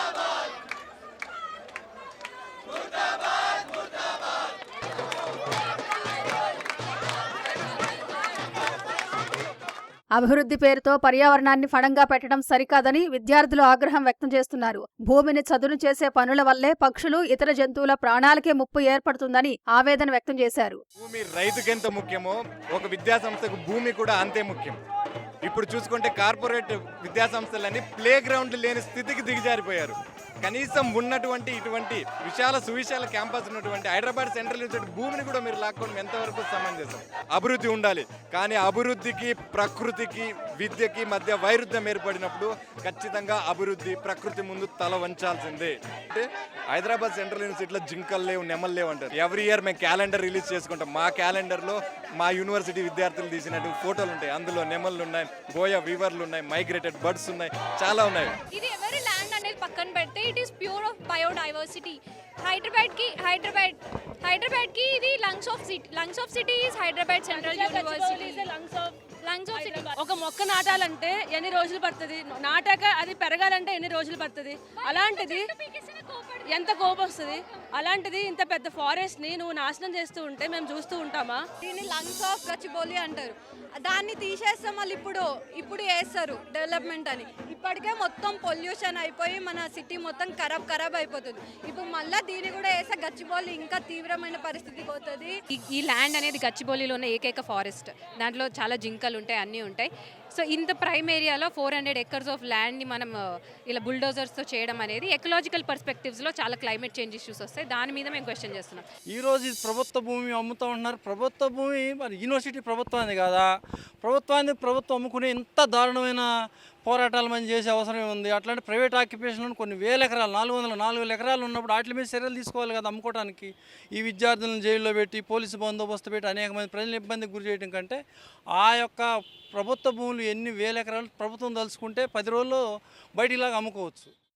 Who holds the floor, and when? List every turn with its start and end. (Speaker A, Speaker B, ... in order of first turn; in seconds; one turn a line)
Speaker A: 10.2-20.8
Speaker B: 21.0-24.8
Speaker B: 25.4-58.3
Speaker C: 58.5-68.5
Speaker D: 67.3-75.5
Speaker C: 69.2-69.9
Speaker C: 74.8-76.7
Speaker D: 76.5-81.4
Speaker E: 81.6-95.3
Speaker F: 95.5-108.8
Speaker G: 109.1-113.5
Speaker G: 114.0-116.2
Speaker G: 116.8-128.0
Speaker G: 128.6-132.6
Speaker G: 133.2-134.1